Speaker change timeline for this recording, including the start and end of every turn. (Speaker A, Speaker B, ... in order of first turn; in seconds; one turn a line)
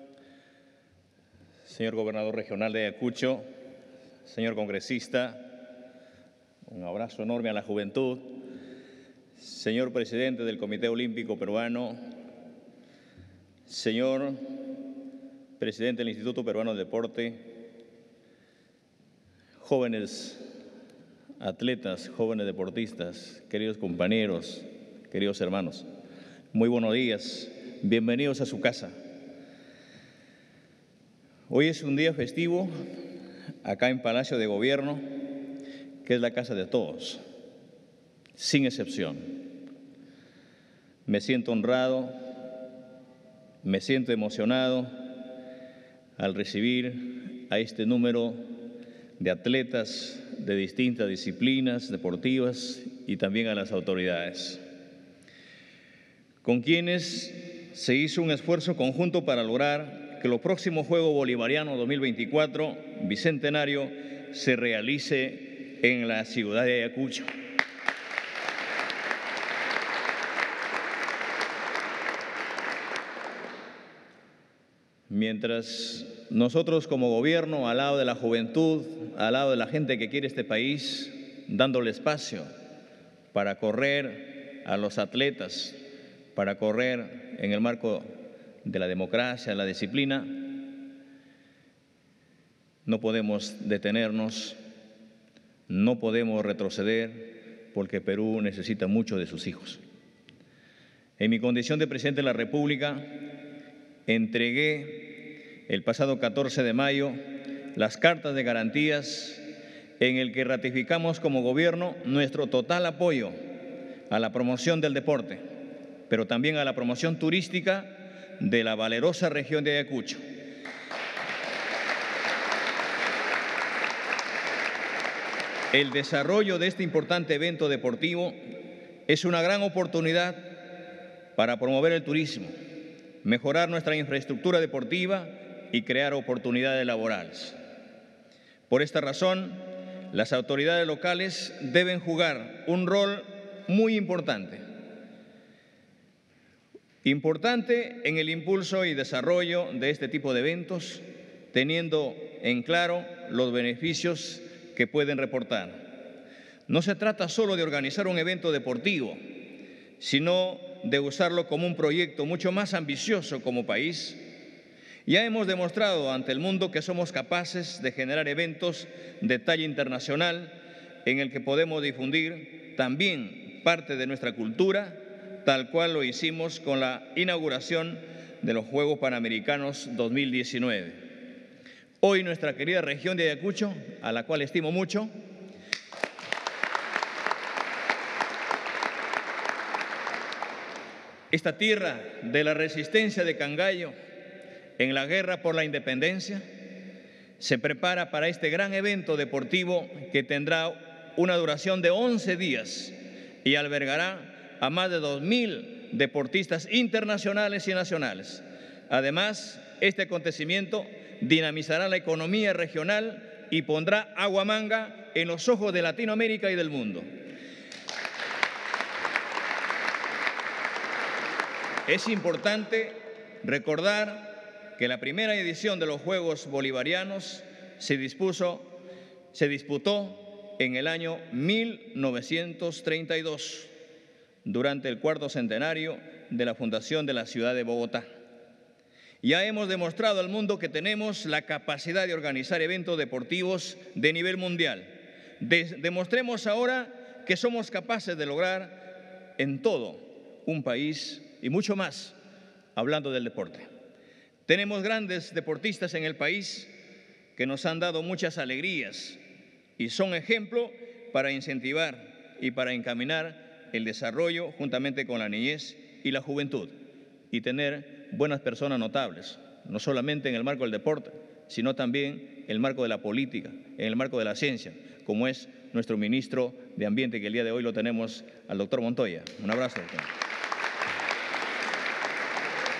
Speaker A: 1.6-3.4
Speaker A: 4.2-5.5
Speaker A: 6.7-8.4
Speaker A: 9.4-12.0
Speaker A: 13.7-14.4
Speaker A: 15.6-17.5
Speaker A: 19.6-20.4
Speaker A: 21.4-25.9
Speaker A: 26.5-28.9
Speaker A: 31.5-32.7
Speaker A: 33.6-35.1
Speaker A: 36.0-37.2
Speaker A: 38.4-39.3
Speaker A: 41.0-42.2
Speaker A: 43.6-45.0
Speaker A: 46.2-48.5
Speaker A: 49.2-54.6
Speaker A: 56.4-67.3
Speaker A: 75.1-82.5
Speaker A: 83.3-85.8
Speaker A: 86.3-90.5
Speaker A: 92.8-94.6
Speaker A: 95.7-99.8
Speaker A: 101.2-103.1
Speaker A: 104.1-107.2
Speaker A: 107.7-109.4
Speaker A: 110.0-113.4
Speaker A: 114.1-115.4
Speaker A: 116.1-120.2
Speaker A: 125.7-128.4
Speaker A: 129.1-130.6
Speaker A: 131.3-132.5
Speaker A: 133.2-137.6
Speaker A: 138.7-144.6
Speaker A: 147.0-155.8
Speaker A: 156.7-159.2
Speaker A: 160.0-164.2
Speaker A: 165.1-181.0
Speaker A: 182.0-185.1
Speaker A: 191.3-193.9
Speaker A: 194.8-196.4
Speaker A: 197.4-217.1
Speaker A: 221.9-228.7
Speaker A: 229.3-233.7
Speaker A: 234.4-238.1
Speaker A: 239.2-252.2
Speaker A: 252.7-253.7
Speaker A: 254.5-256.7
Speaker A: 257.4-259.2
Speaker A: 259.8-266.7
Speaker A: 267.3-280.1